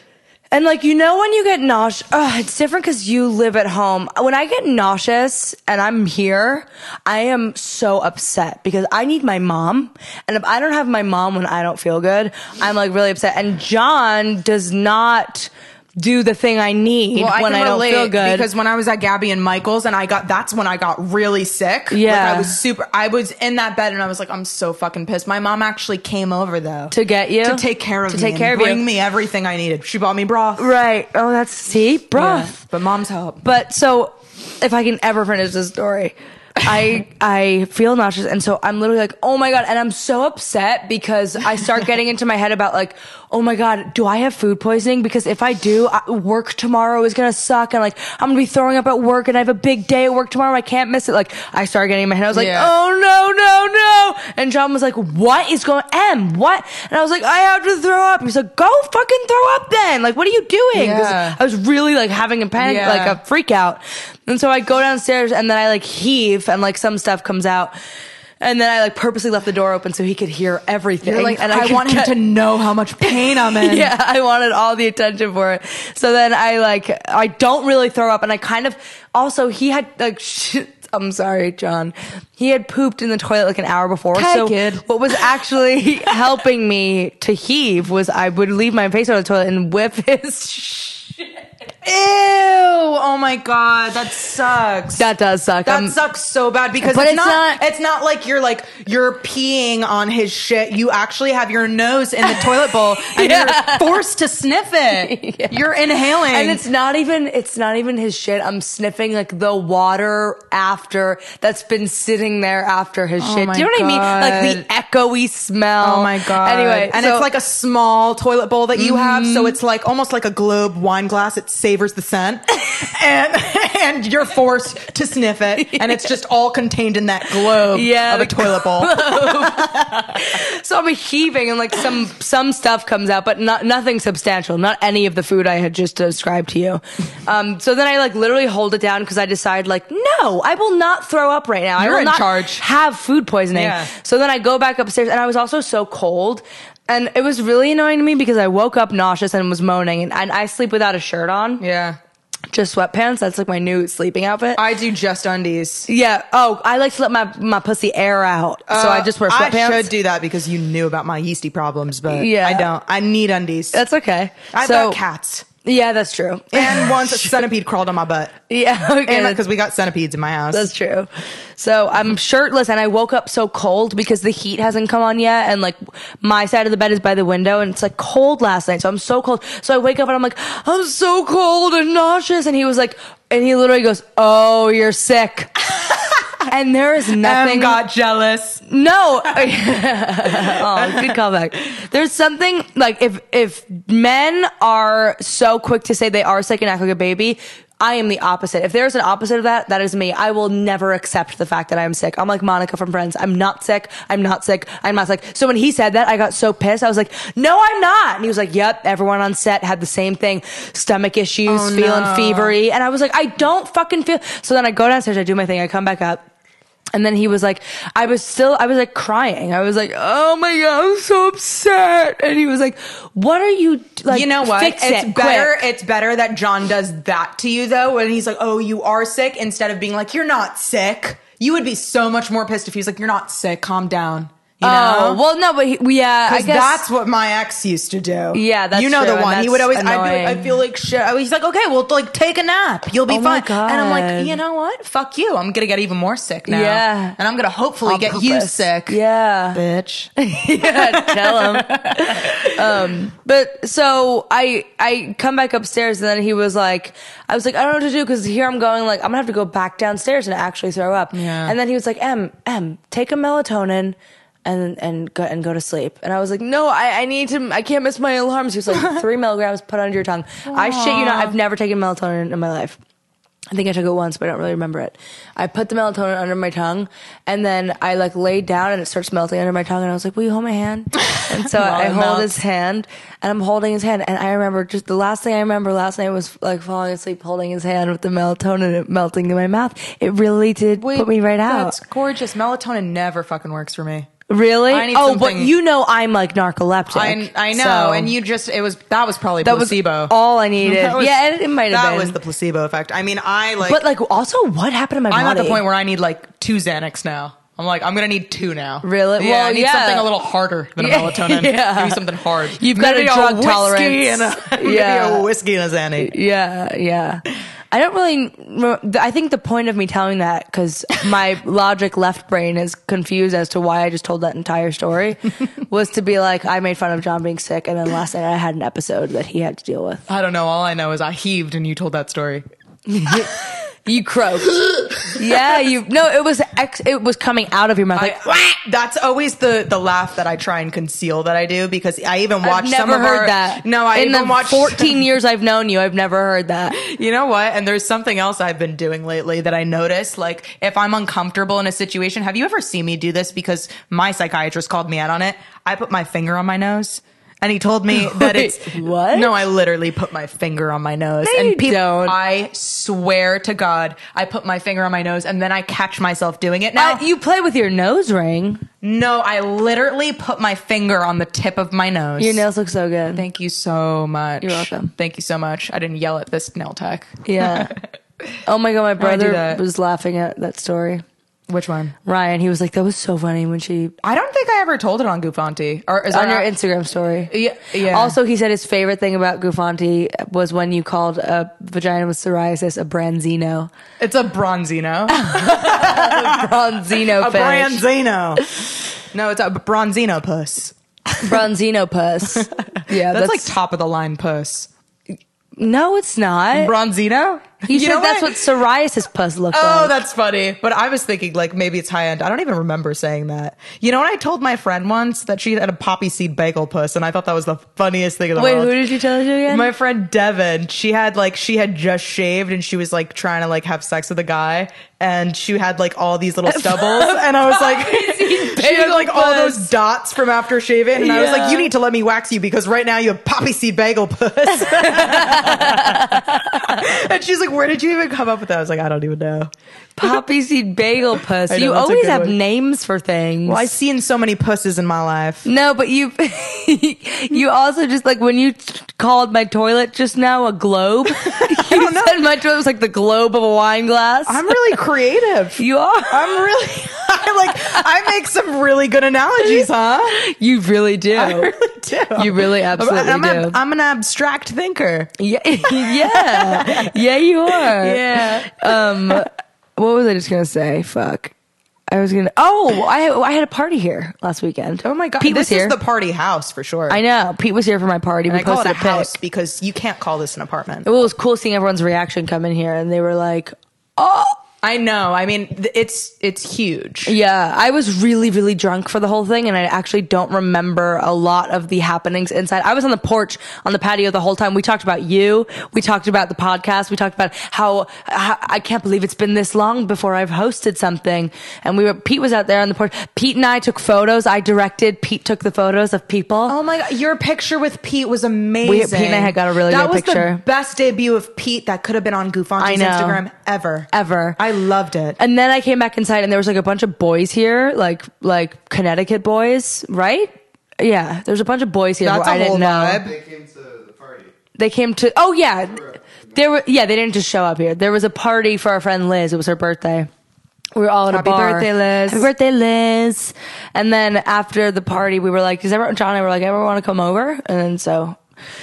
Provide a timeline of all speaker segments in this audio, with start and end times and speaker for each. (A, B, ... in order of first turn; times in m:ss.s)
0:00.5-0:18.5 A
0:17.1-0:30.7 B
0:21.9-0:22.5 A
0:26.9-0:28.8 A
0:30.6-0:32.6 A
0:32.1-0:33.4 B
0:33.4-1:07.7 A
0:52.3-0:52.7 B
1:00.7-1:01.4 B
1:02.6-1:03.2 B
1:08.4-1:12.2 A
1:11.0-1:13.9 B
1:13.0-1:31.4 A
1:24.1-1:25.3 B
1:31.8-1:35.1 B
1:35.0-1:36.0 A
1:35.6-1:46.6 B
1:36.8-1:37.6 A
1:42.2-1:44.0 A
1:44.9-1:57.3 A
1:53.2-1:54.6 B
1:55.8-2:10.4 B
1:58.7-1:59.6 A
2:05.6-2:06.0 A
2:07.6-2:31.6 A
2:21.8-2:22.6 B
2:23.5-2:23.9 B
2:31.6-2:32.0 B
2:32.5-2:34.6 A
2:34.6-2:35.9 B
2:35.9-2:39.9 A
2:38.7-2:43.8 B
2:42.1-2:42.7 A
2:43.7-2:45.0 A
2:44.5-2:45.5 B
2:45.6-2:47.4 A
2:46.5-2:48.4 B
2:48.5-2:49.4 A
2:49.0-2:50.7 B
2:50.5-3:05.5 A
3:05.8-3:06.4 B
3:06.5-3:07.8 A
3:07.2-3:08.6 B
3:08.7-3:36.2 A
3:09.3-3:09.5 B
3:10.3-3:11.2 B
3:31.5-3:32.6 B
3:36.9-3:45.6 A
3:44.1-3:55.2 B
3:54.6-3:56.8 A
3:56.3-4:09.0 B
3:58.3-4:00.6 A
4:03.1-4:04.4 A
4:06.5-4:07.2 A
4:07.8-4:09.6 A
4:09.5-4:13.0 B
4:10.2-4:32.8 A
4:21.1-4:21.6 B
4:30.5-4:31.4 B
4:33.5-4:51.8 A
4:41.1-4:42.4 B
4:50.8-4:54.1 B
4:54.3-4:58.1 A
4:54.7-4:55.5 B
4:56.9-5:03.8 B
4:59.4-5:02.2 A
5:03.6-5:05.6 A
5:05.1-5:16.1 B
5:08.8-5:10.1 A
5:10.8-5:15.3 A
5:16.0-5:30.0 A
5:30.1-5:32.4 B
5:32.9-5:38.4 A
5:37.9-5:45.0 B
5:42.4-5:46.8 A
5:46.7-6:07.0 B
5:57.9-5:59.4 A
6:01.2-6:02.2 A
6:06.7-6:08.6 A
6:08.8-6:12.4 B
6:12.2-6:13.2 A
6:13.1-6:17.8 B
6:14.4-6:14.9 A
6:17.2-6:17.7 A
6:18.4-6:21.0 A
6:19.0-6:19.6 B
6:21.5-6:22.0 B
6:22.0-6:23.9 A
6:24.0-6:26.5 B
6:26.1-6:33.7 A
6:27.3-6:28.2 B
6:34.0-6:38.5 B
6:35.1-6:37.8 A
6:39.1-6:41.4 B
6:41.2-6:43.5 A
6:42.2-6:44.7 B
6:45.6-6:46.7 A
6:46.5-6:48.4 B
6:47.7-6:49.9 A
6:49.5-6:58.8 B
6:58.4-6:59.7 A
6:59.5-7:19.5 B
7:06.4-7:09.7 A
7:10.9-7:11.7 A
7:14.5-7:16.8 A
7:20.0-7:23.6 A
7:21.5-7:22.4 B
7:23.4-7:25.4 B
7:25.4-7:34.6 A
7:31.2-7:32.2 B
7:34.3-7:40.2 B
7:35.6-7:36.5 A
7:39.4-7:41.5 A
7:41.1-7:45.1 B
7:42.1-7:43.6 A
7:45.2-7:51.3 A
7:45.6-7:49.3 B
7:51.9-7:55.8 A
7:54.8-7:57.0 B
7:56.9-7:59.1 A
7:58.3-8:01.0 B
8:00.8-8:04.4 A
8:04.6-8:07.1 B
8:07.0-8:26.6 A
8:26.5-8:35.2 B
8:28.6-8:30.4 A
8:32.6-8:33.2 A
8:33.9-8:34.4 A
8:35.2-8:43.0 A
8:42.0-8:43.1 B
8:42.9-8:44.3 C
8:44.6-8:45.8 A
8:45.6-8:46.6 C
8:46.3-8:50.1 A
8:50.7-8:58.2 A
8:51.1-8:52.3 B